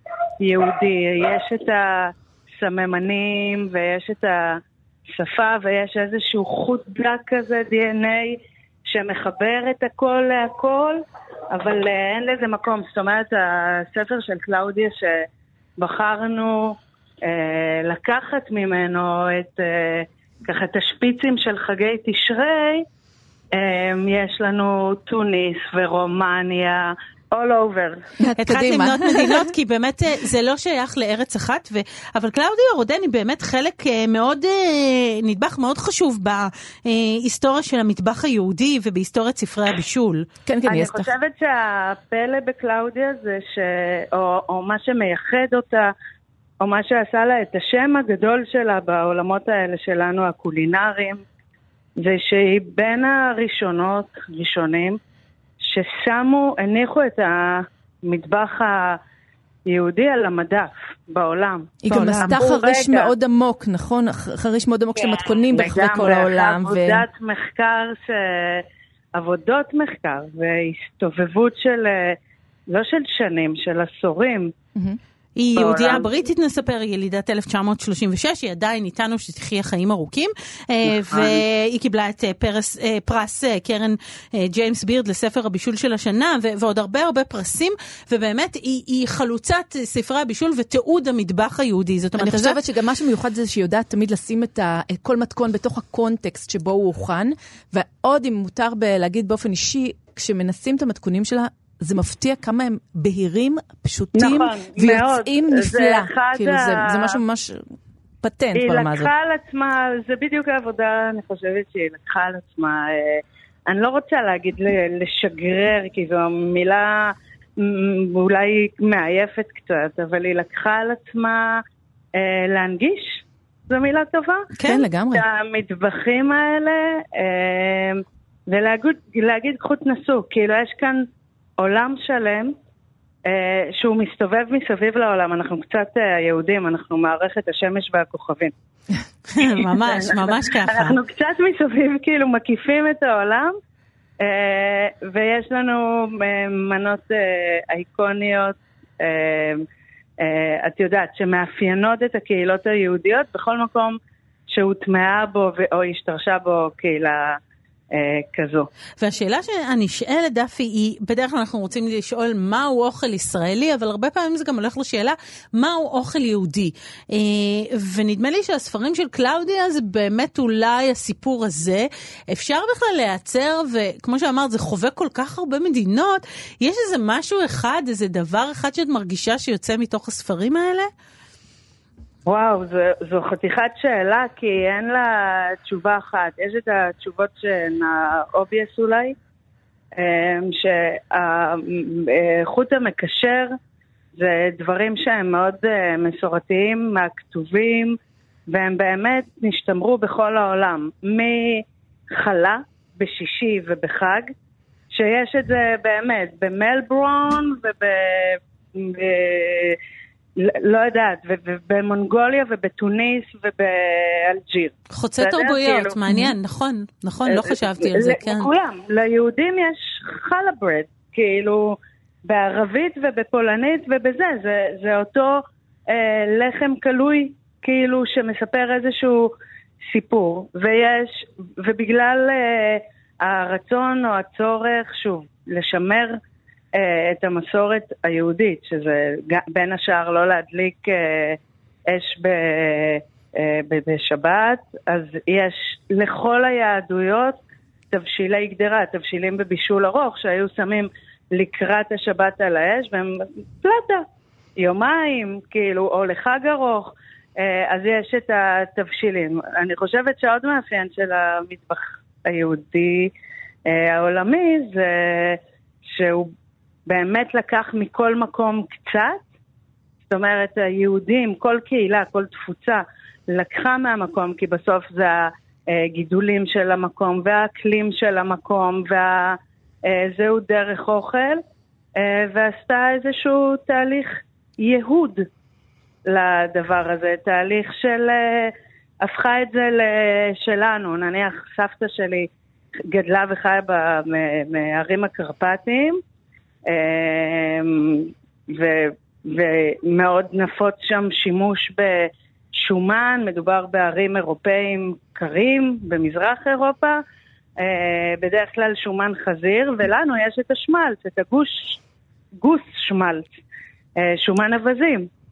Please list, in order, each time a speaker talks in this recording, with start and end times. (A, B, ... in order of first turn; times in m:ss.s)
0:00.4-0:04.6 A
0:05.1-0:15.3 A
0:15.8-0:22.8 A
0:23.5-0:28.0 A
0:28.2-0:29.4 B
0:28.4-0:40.3 C
0:40.4-0:41.1 B
0:40.7-0:45.9 A
0:46.6-0:51.2 A
0:52.0-0:55.0 A
0:55.6-0:59.0 A
0:59.7-1:01.8 A
1:01.8-1:07.0 B
1:01.9-1:02.4 C
1:02.3-1:03.1 A
1:05.0-1:12.2 A
1:12.7-1:14.5 A
1:15.4-1:32.6 C
1:15.6-1:16.1 A
1:21.1-1:21.4 A
1:32.2-1:49.1 B
1:44.2-1:47.1 A
1:48.5-2:01.6 A
2:02.1-2:04.5 A
2:04.6-2:04.8 C
2:04.6-2:05.2 B
2:05.1-2:11.1 A
2:11.6-2:12.5 A
2:13.2-2:18.5 A
2:19.3-2:21.0 C
2:19.4-2:23.5 A
2:24.2-2:29.6 A
2:30.2-2:34.0 A
2:34.5-2:37.4 A
2:37.9-2:38.7 A
2:39.0-3:00.9 C
3:02.2-3:09.2 A
3:10.0-3:13.5 A
3:14.2-3:18.0 A
3:18.5-3:24.3 A
3:24.9-3:29.8 A
3:30.4-3:36.0 A
3:34.9-3:38.5 C
3:36.1-3:36.3 B
3:37.3-3:49.3 A
3:49.9-3:56.2 A
3:56.7-4:07.4 A
4:07.9-4:14.0 A
4:14.6-4:23.1 A
4:23.6-4:26.3 A
4:26.9-4:29.2 A
4:30.1-4:41.4 A
4:42.0-4:45.3 A
4:46.0-4:52.3 A
4:52.9-4:56.0 A
4:56.7-5:07.0 A
5:07.6-5:11.8 A
5:12.4-5:13.3 A
5:14.0-5:15.1 A